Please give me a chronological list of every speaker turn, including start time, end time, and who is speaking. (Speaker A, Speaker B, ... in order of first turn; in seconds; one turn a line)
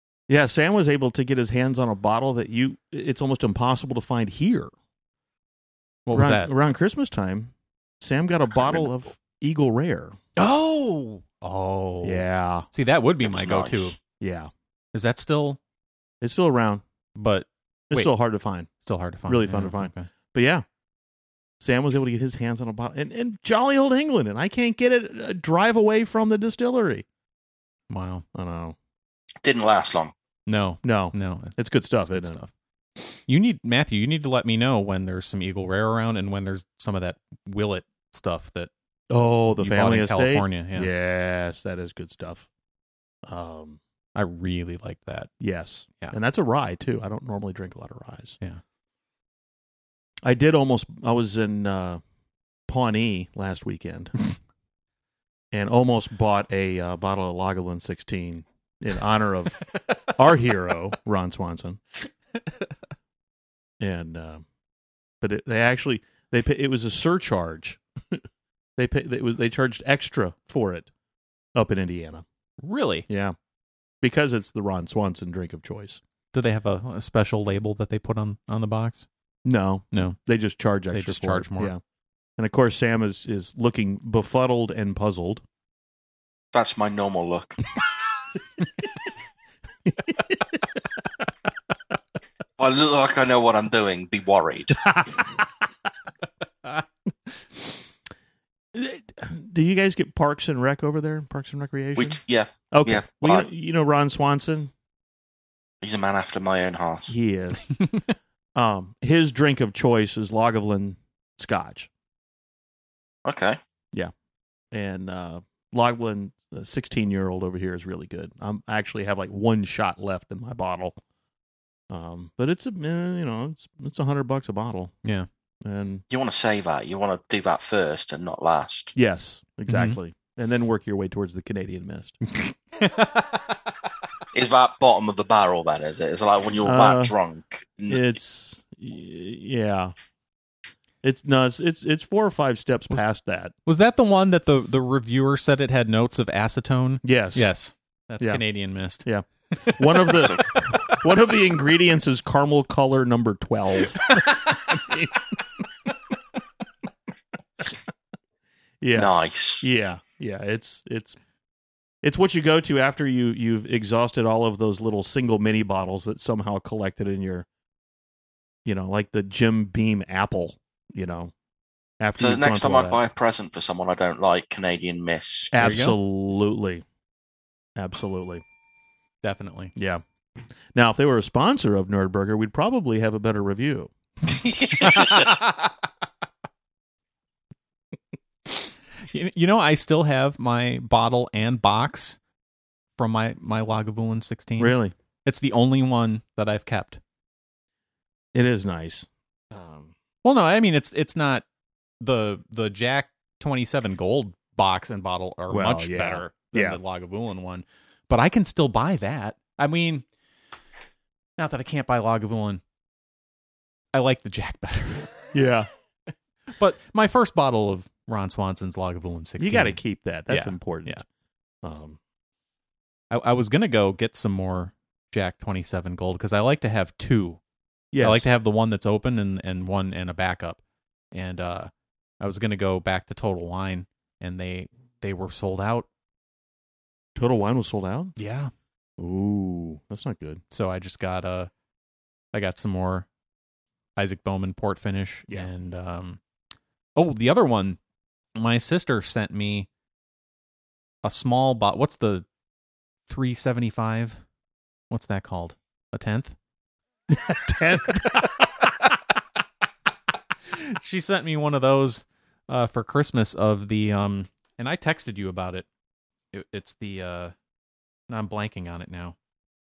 Speaker A: 0.3-4.7
Speaker B: 6.1-6.5
Speaker A: 6.1-10.2
Speaker B: 10.4-14.0
Speaker A: 12.0-12.7
Speaker C: 13.2-14.0
Speaker A: 14.2-14.5
Speaker B: 14.9-15.6
Speaker A: 16.2-16.8
Speaker B: 17.2-18.1
Speaker A: 17.9-18.7
Speaker B: 18.8-20.1
Speaker A: 19.3-20.6
Speaker A: 21.6-27.1
Speaker B: 27.9-28.2
Speaker A: 28.3-28.8
Speaker C: 29.4-30.1
Speaker B: 30.5-32.5
Speaker A: 30.8-32.4
Speaker B: 33.3-38.7
Speaker A: 39.1-42.5
Speaker B: 39.6-40.9
Speaker A: 43.3-43.8
Speaker B: 44.1-45.3
Speaker A: 45.4-48.4
Speaker A: 50.2-52.0
Speaker A: 52.7-54.2
Speaker A: 55.5-61.8
Speaker A: 63.8-64.4
Speaker A: 65.2-68.2
Speaker A: 68.8-70.9
Speaker A: 71.5-72.2
Speaker B: 72.6-73.1
Speaker A: 73.1-73.4
Speaker A: 74.0-76.0
Speaker B: 76.3-79.1
Speaker A: 79.5-81.8
Speaker B: 79.9-80.2
Speaker B: 80.9-81.7
Speaker A: 82.4-85.4
Speaker C: 86.5-87.6
Speaker A: 89.9-90.6
Speaker C: 92.6-95.0
Speaker A: 98.7-102.2
Speaker C: 102.0-103.5
Speaker A: 102.7-104.7
Speaker C: 105.8-107.1
Speaker A: 107.1-107.7
Speaker A: 108.5-111.9
Speaker C: 113.2-113.6
Speaker A: 114.7-121.0
Speaker A: 121.9-125.0
Speaker A: 125.7-126.0
Speaker C: 126.1-128.9
Speaker A: 128.9-132.2
Speaker B: 129.7-130.0
Speaker B: 132.8-133.6
Speaker C: 134.3-138.2
Speaker A: 136.6-137.1
Speaker A: 137.9-139.9
Speaker A: 141.0-143.5
Speaker B: 143.7-149.1
Speaker A: 147.0-147.5
Speaker A: 149.0-155.3
Speaker B: 149.6-150.3
Speaker B: 154.1-154.5
Speaker A: 158.8-161.2
Speaker C: 158.9-159.7
Speaker A: 162.0-167.5
Speaker A: 168.7-171.3
Speaker A: 172.0-173.0
Speaker C: 172.2-175.5
Speaker A: 175.5-176.8
Speaker B: 175.6-176.0
Speaker A: 177.8-178.4
Speaker B: 179.2-179.7
Speaker A: 179.8-180.0
Speaker A: 180.8-183.9
Speaker C: 184.5-185.3
Speaker B: 189.1-192.2
Speaker B: 193.0-197.0
Speaker A: 194.6-194.9
Speaker A: 198.3-199.9
Speaker B: 200.2-201.4
Speaker B: 202.0-210.1
Speaker A: 205.5-206.8
Speaker B: 211.4-212.6
Speaker B: 213.9-215.1
Speaker A: 215.3-215.7
Speaker B: 216.6-221.0
Speaker A: 219.4-221.0
Speaker A: 221.6-222.0
Speaker B: 223.1-227.4
Speaker A: 227.9-228.3
Speaker B: 228.0-230.6
Speaker B: 231.1-235.9
Speaker A: 237.2-238.1
Speaker B: 238.2-238.5
Speaker A: 239.0-240.4
Speaker B: 240.5-241.5
Speaker B: 242.3-243.1
Speaker B: 244.0-246.2
Speaker B: 247.0-247.8
Speaker B: 248.4-249.7
Speaker B: 251.0-252.2
Speaker B: 253.1-254.2
Speaker B: 254.9-256.4
Speaker A: 257.1-258.3
Speaker B: 260.5-265.7
Speaker B: 266.3-267.3
Speaker B: 268.1-269.1